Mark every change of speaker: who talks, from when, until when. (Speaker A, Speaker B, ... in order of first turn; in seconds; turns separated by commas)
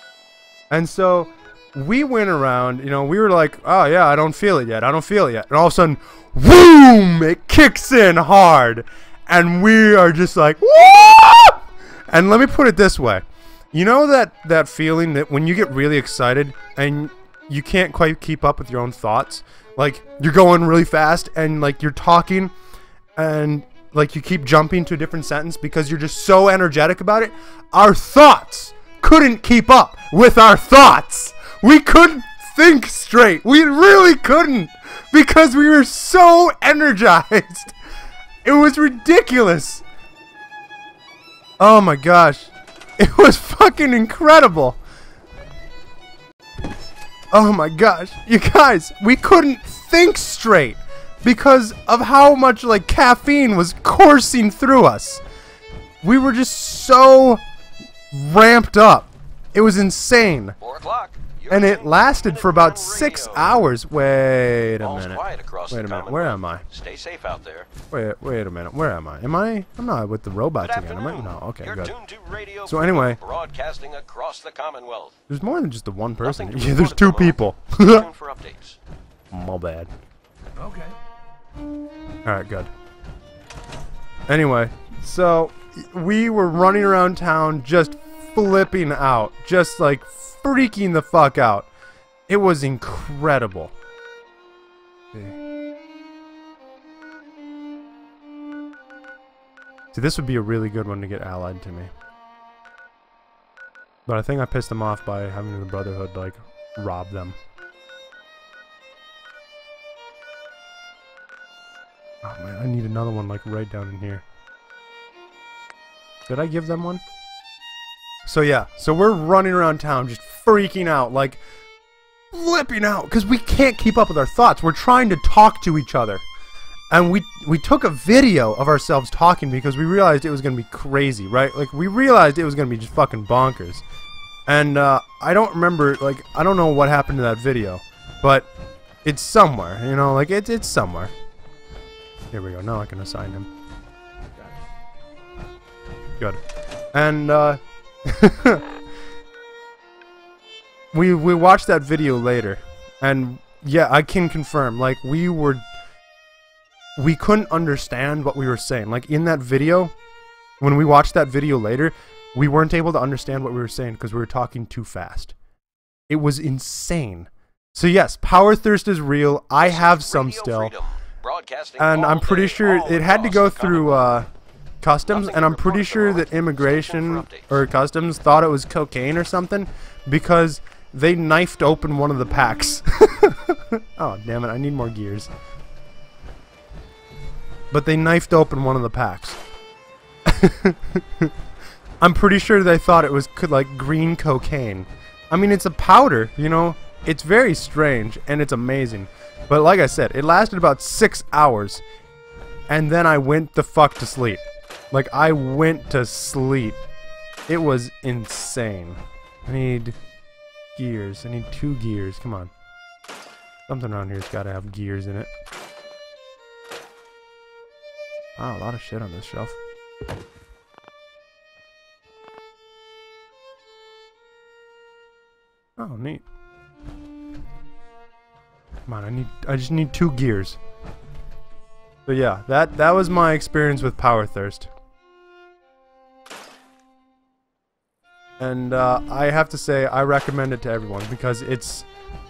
Speaker A: 0.7-22.5, Speaker A: 23.1-37.8, Speaker A: 38.4-39.8, Speaker A: 41.6-44.8, Speaker A: 47.3-55.2, Speaker A: 56.0-57.4, Speaker A: 58.1-60.5, Speaker B: 60.6-63.6, Speaker A: 61.5-66.6, Speaker B: 64.8-67.7, Speaker A: 67.9-71.9, Speaker B: 70.6-75.2, Speaker A: 72.7-73.2, Speaker A: 75.3-78.0, Speaker B: 76.2-78.8, Speaker A: 79.3-79.9, Speaker A: 82.2-82.7, Speaker A: 84.3-91.7, Speaker A: 92.3-93.7, Speaker A: 95.1-95.4, Speaker A: 99.9-101.9, Speaker A: 104.0-107.4, Speaker A: 112.2-114.2, Speaker A: 116.3-117.0, Speaker A: 118.2-121.4, Speaker A: 122.3-126.2, Speaker A: 126.9-133.8, Speaker A: 134.4-138.5, Speaker A: 139.0-141.1, Speaker A: 142.3-143.5, Speaker A: 146.9-148.6, Speaker A: 150.9-155.7, Speaker A: 157.0-159.9, Speaker A: 160.6-165.3, Speaker A: 166.1-170.7, Speaker B: 169.6-174.1, Speaker A: 171.8-174.3, Speaker A: 174.8-185.3, Speaker B: 175.1-177.6, Speaker A: 187.7-189.4, Speaker A: 190.2-191.3, Speaker A: 192.0-201.8, Speaker A: 202.7-206.8, Speaker A: 207.5-210.0, Speaker A: 210.7-212.5, Speaker A: 213.7-215.3, Speaker A: 218.4-219.6, Speaker A: 225.8-226.2, Speaker A: 228.8-230.6, Speaker A: 232.1-234.7, Speaker A: 238.4-241.9